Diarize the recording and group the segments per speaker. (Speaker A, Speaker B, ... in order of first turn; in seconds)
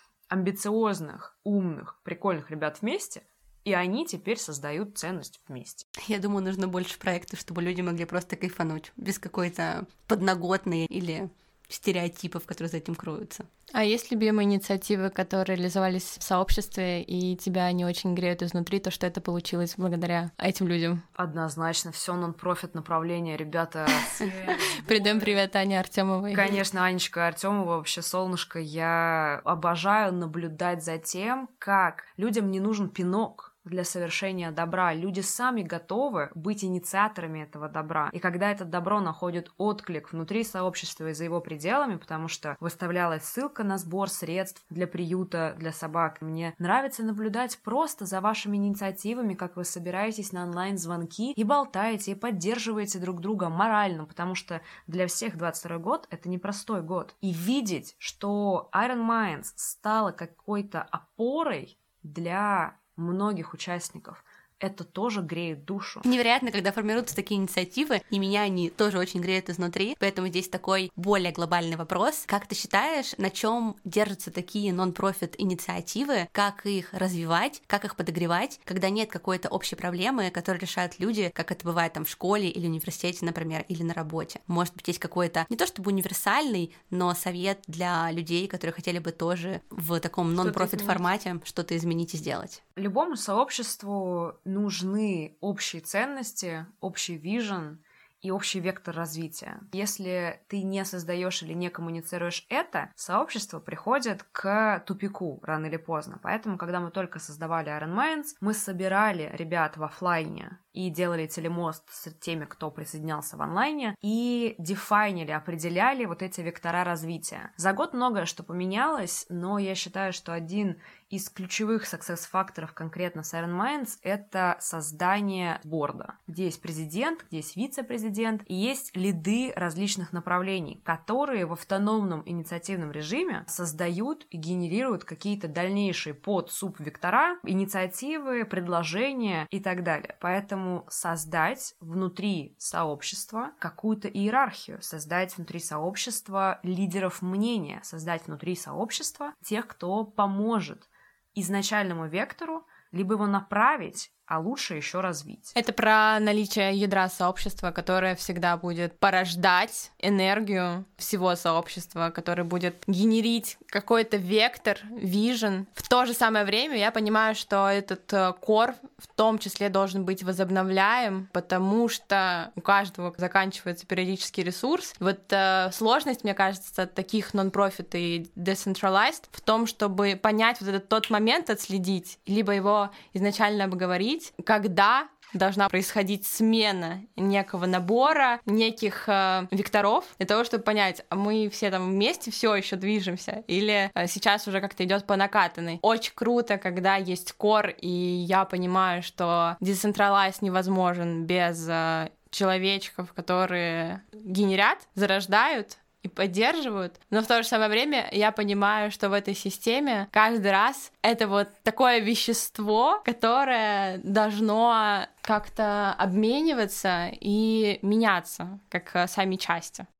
Speaker A: 0.3-5.8, 21.1-25.4, 26.3-66.0, 90.4-91.0, 92.8-155.5
Speaker B: 6.0-13.5, 66.0-92.6
Speaker C: 13.7-21.0, 24.8-26.5, 155.5-219.8